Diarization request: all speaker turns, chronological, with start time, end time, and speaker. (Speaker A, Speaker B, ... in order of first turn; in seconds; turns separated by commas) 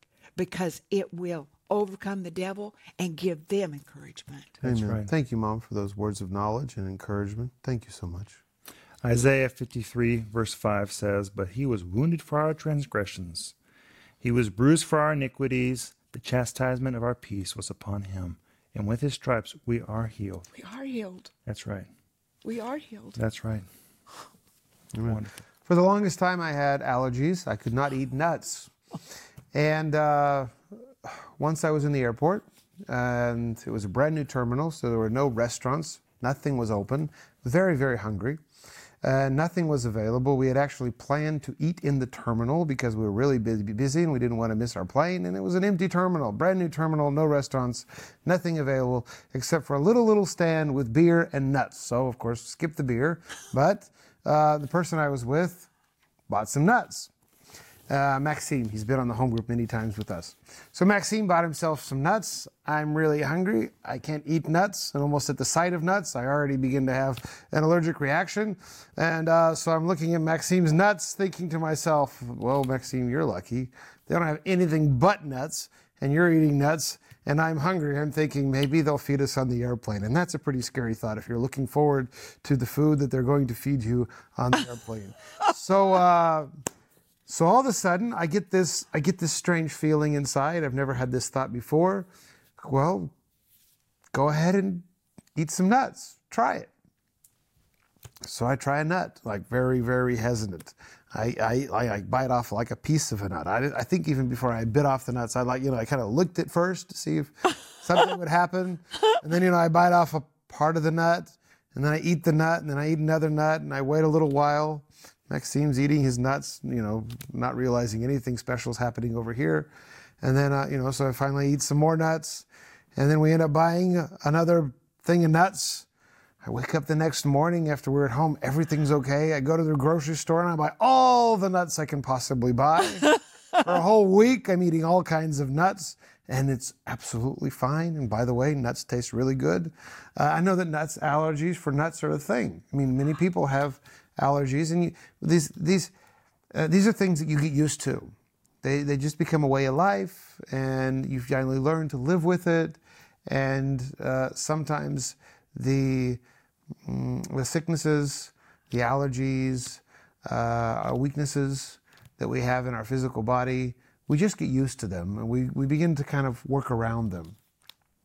Speaker A: 0.3-4.6, Speaker B: 4.6-5.1, Speaker C: 4.6-8.4, Speaker B: 9.0-13.5, Speaker B: 14.2-20.5, Speaker A: 20.5-21.3, Speaker B: 21.4-21.9, Speaker A: 22.4-23.2, Speaker B: 23.2-23.7, Speaker C: 24.9-28.7, Speaker B: 25.0-25.3, Speaker C: 29.5-38.4, Speaker C: 39.0-55.7, Speaker C: 56.3-57.1, Speaker C: 57.9-86.5, Speaker C: 87.3-93.1, Speaker C: 94.1-96.7, Speaker C: 98.2-119.7, Speaker C: 120.2-125.9, Speaker C: 126.4-145.9, Speaker C: 146.5-156.2, Speaker C: 156.8-167.3